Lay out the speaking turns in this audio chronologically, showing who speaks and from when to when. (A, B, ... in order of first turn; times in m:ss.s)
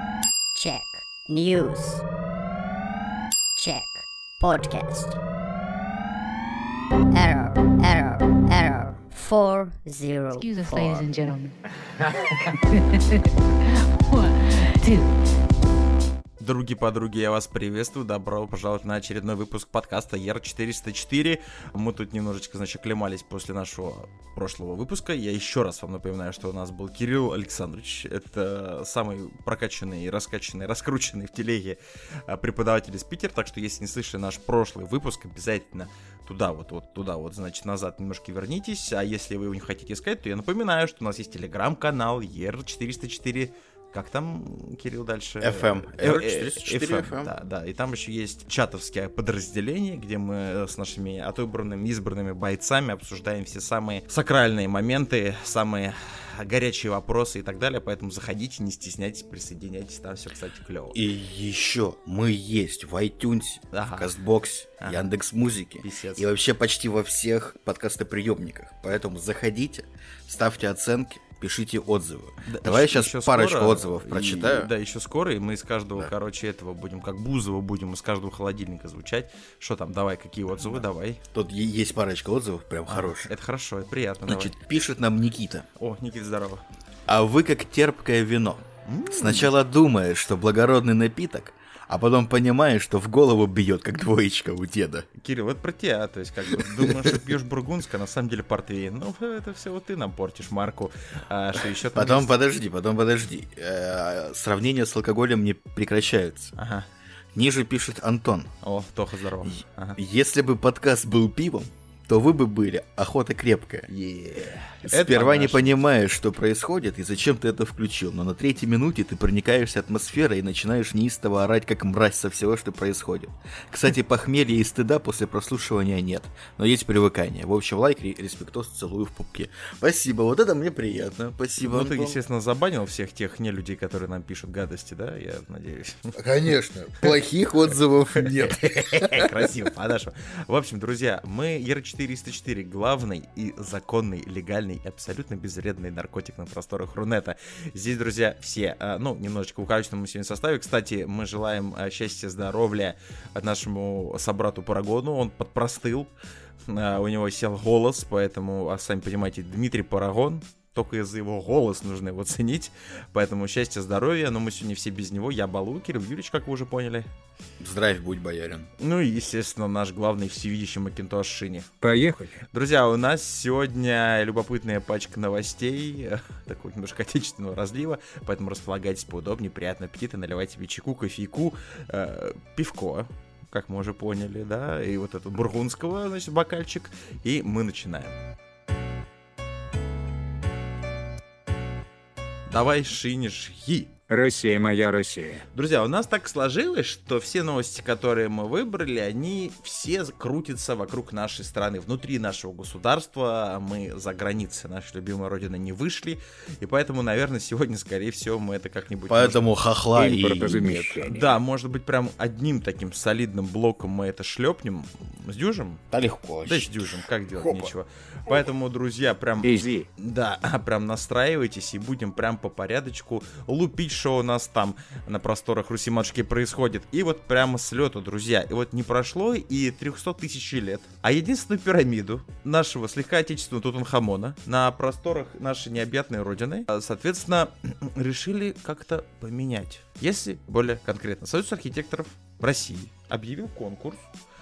0:00.5-0:02.0 A
0:03.6-0:05.2 A
0:07.1-0:11.1 A
0:10.3-0:11.5 B
0:12.4-0:13.2 B
0:14.1-0:15.1 B
0:16.4-1:01.0 C
0:45.4-0:47.3 D
1:00.9-1:14.7 D
1:03.7-1:04.1 C
1:04.8-1:05.1 C
1:05.8-1:06.2 C
1:12.4-1:21.2 C
1:20.6-1:23.3 D
1:22.9-1:24.5 C
1:24.3-1:25.6 D
1:25.8-1:26.6 C
1:27.1-1:35.1 D
1:28.8-1:29.5 C
1:35.1-1:42.3 C
1:36.5-1:37.2 D
1:41.9-1:46.5 D
1:46.6-1:46.8 C
1:47.3-1:48.5 D
1:48.6-1:50.0 C
1:49.4-1:53.9 D
1:53.9-1:55.8 C
1:54.8-2:12.2 D
2:11.6-2:16.1 C
2:16.2-2:19.5 D
2:18.2-2:36.1 C
2:36.6-2:47.1 C
2:47.6-2:48.7 D
2:48.8-2:51.7 C
2:51.8-2:52.4 E
2:52.5-3:08.1 C
3:12.5-3:13.9 C
3:14.1-3:15.4 E
3:15.5-3:29.5 C
3:29.1-3:31.0 D
3:29.9-3:31.4 E
3:31.1-3:35.8 C
3:35.9-3:37.7 D
3:36.4-4:04.0 C
3:39.4-3:39.9 E